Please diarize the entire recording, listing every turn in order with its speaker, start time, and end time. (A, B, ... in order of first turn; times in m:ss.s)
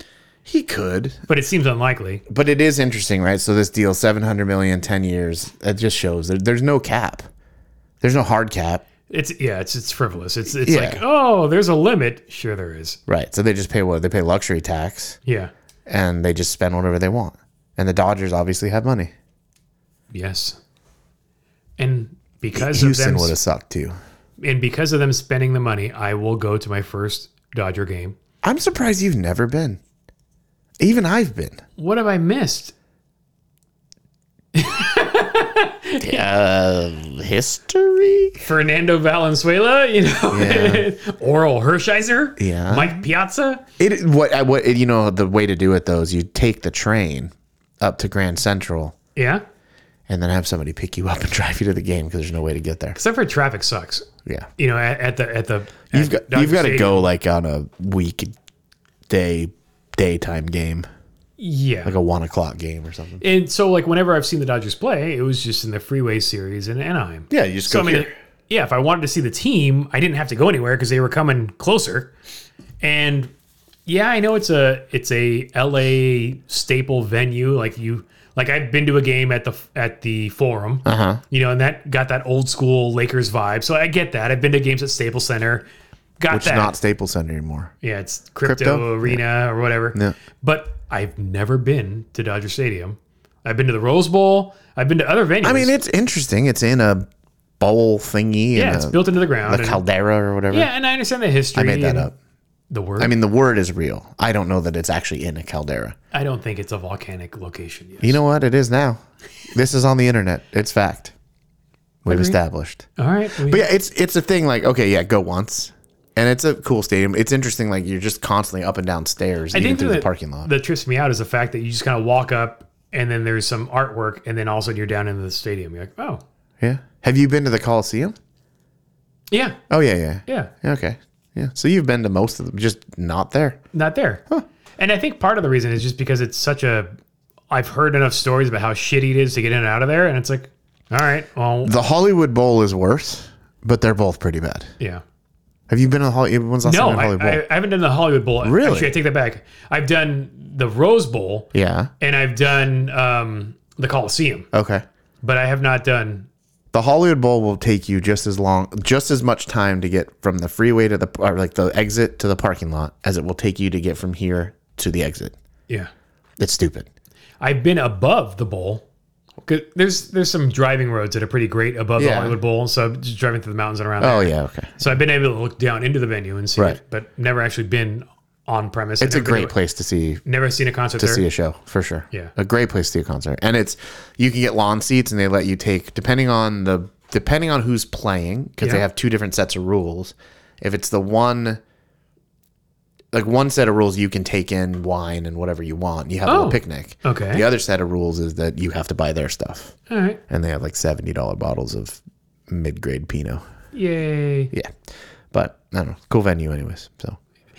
0:00.5-0:01.2 A
0:01.3-0:02.2 B
0:02.3-0:07.2 A
0:08.0-0:08.8 A
0:09.1-0:13.0 B
0:10.5-0:11.0 A
0:13.1-0:15.2 A
0:15.2-0:15.5 B
0:15.9-0:19.1 A
0:20.1-0:20.6 B
0:21.8-0:23.4 B
0:22.5-0:24.0 A
0:24.4-0:28.2 B
0:28.4-0:29.8 A
0:30.8-0:31.6 A
0:31.8-0:32.7 B
0:34.5-0:36.2 B
0:36.0-0:38.4 A
0:38.4-0:43.6 B
0:40.3-0:40.9 A
0:42.4-0:43.0 A
0:43.8-0:49.0 A
0:49.2-0:49.4 B
0:50.1-0:53.0 A
0:53.0-0:54.1 B
0:54.6-0:57.1 B
0:55.9-0:58.3 A
0:59.1-1:00.9 A
1:01.4-1:02.0 B
1:01.8-1:03.2 A
1:03.2-1:12.1 B
1:07.3-1:08.1 A
1:12.8-1:13.3 B
1:13.9-1:25.7 B
1:20.8-1:21.2 A
1:26.2-1:26.7 B
1:26.3-1:27.7 A
1:27.8-1:35.7 B
1:28.4-1:29.2 A
1:35.4-1:37.1 A
1:37.6-1:40.7 A
1:38.6-1:39.8 B
1:40.5-1:42.1 B
1:41.6-1:42.1 A
1:42.7-1:43.1 B
1:43.0-1:46.0 A
1:46.1-1:48.2 B
1:48.0-1:51.1 A
1:52.0-1:52.9 A
1:52.1-1:52.4 B
1:53.0-1:53.7 B
1:53.4-2:00.5 A
1:59.5-2:06.2 B
2:06.6-2:08.2 A
2:09.3-2:09.6 B
2:09.7-2:13.6 A
2:10.3-2:10.5 B
2:13.7-2:14.2 B
2:14.8-2:16.9 B
2:17.5-2:21.7 B
2:21.6-2:24.7 A
2:25.7-2:27.4 A
2:26.6-2:34.5 B
2:28.4-2:28.9 A
2:31.5-2:31.9 A
2:34.5-2:34.8 A
2:35.2-2:36.3 B
2:36.7-2:45.4 A
2:46.4-2:46.9 A
2:47.4-2:48.8 B
2:49.5-2:59.5 B
2:52.0-2:52.4 A
2:54.0-2:54.8 A
2:59.0-3:00.2 A
3:00.2-3:01.2 B
3:01.0-3:11.6 A
3:13.1-3:19.8 A
3:16.3-3:17.4 B
3:19.9-3:20.2 B
3:20.3-3:23.4 A
3:23.7-3:24.5 B
3:24.5-3:24.8 A
3:25.3-3:27.2 A